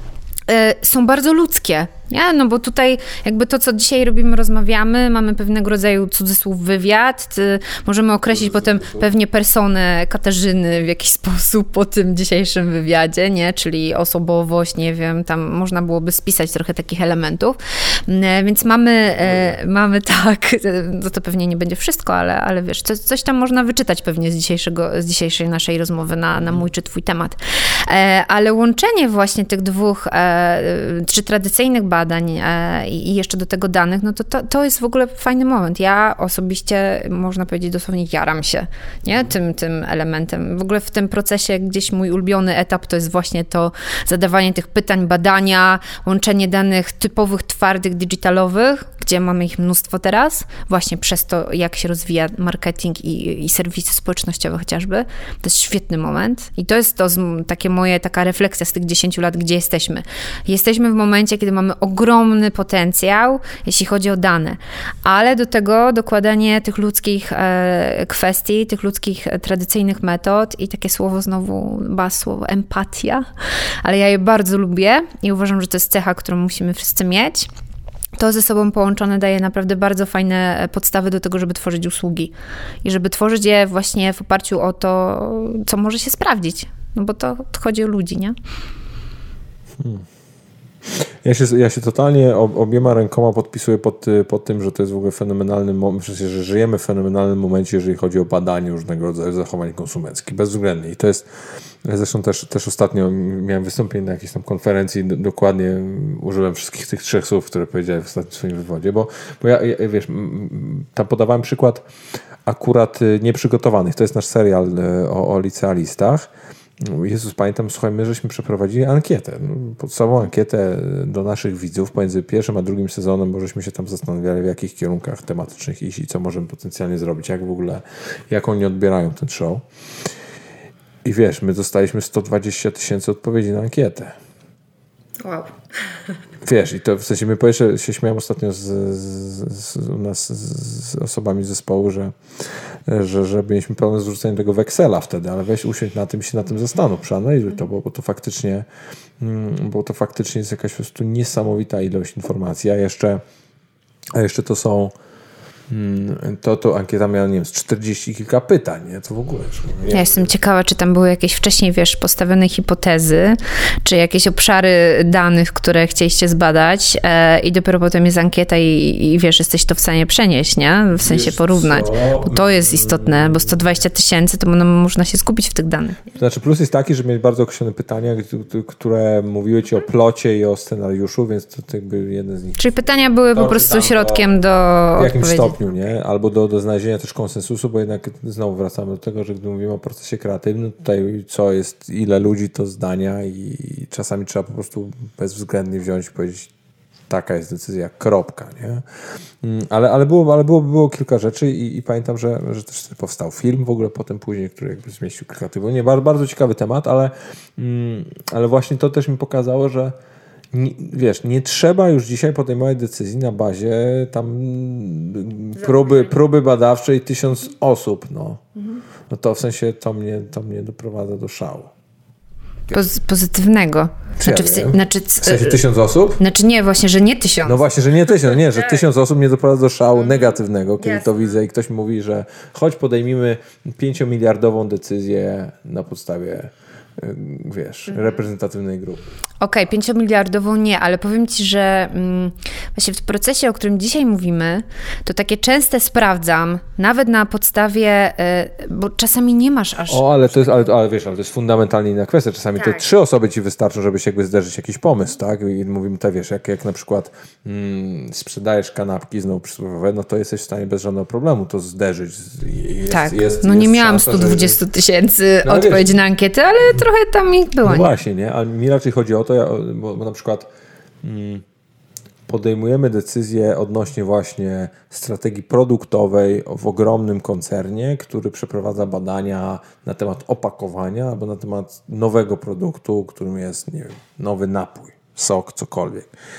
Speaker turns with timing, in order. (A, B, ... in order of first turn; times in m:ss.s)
0:00.5-1:13.3 A
0:08.3-0:09.1 B
0:19.2-0:19.5 B
1:13.8-1:17.5 A
1:18.2-1:28.4 A
1:29.8-1:30.1 B
1:30.9-1:41.3 B
1:41.8-1:51.8 B
1:52.5-1:56.3 B
1:56.8-2:09.6 B
2:11.0-2:14.2 B
2:15.2-2:15.5 A
2:16.4-2:22.1 B
2:22.9-2:28.7 B
2:29.2-2:33.2 B
2:34.2-2:35.0 B
2:35.7-2:40.3 B
2:39.9-2:56.0 A
2:51.0-2:53.6 B
2:56.2-3:02.7 B
3:02.6-3:05.6 A
3:03.3-3:04.3 B
3:05.0-3:16.5 B
3:17.1-3:18.8 B
3:19.4-3:30.0 B
3:30.5-3:38.4 B
3:35.6-3:36.1 A
3:39.1-3:41.7 B
3:42.7-3:45.6 A
3:44.2-3:46.2 B
3:46.2-3:47.6 A
3:47.4-3:59.1 B
3:50.8-3:51.1 A
3:59.4-4:10.6 A
4:09.9-4:24.6 B
4:22.9-4:27.9 A
4:25.4-4:26.0 B
4:27.6-4:30.5 B
4:31.0-4:31.4 B
4:32.3-4:46.1 B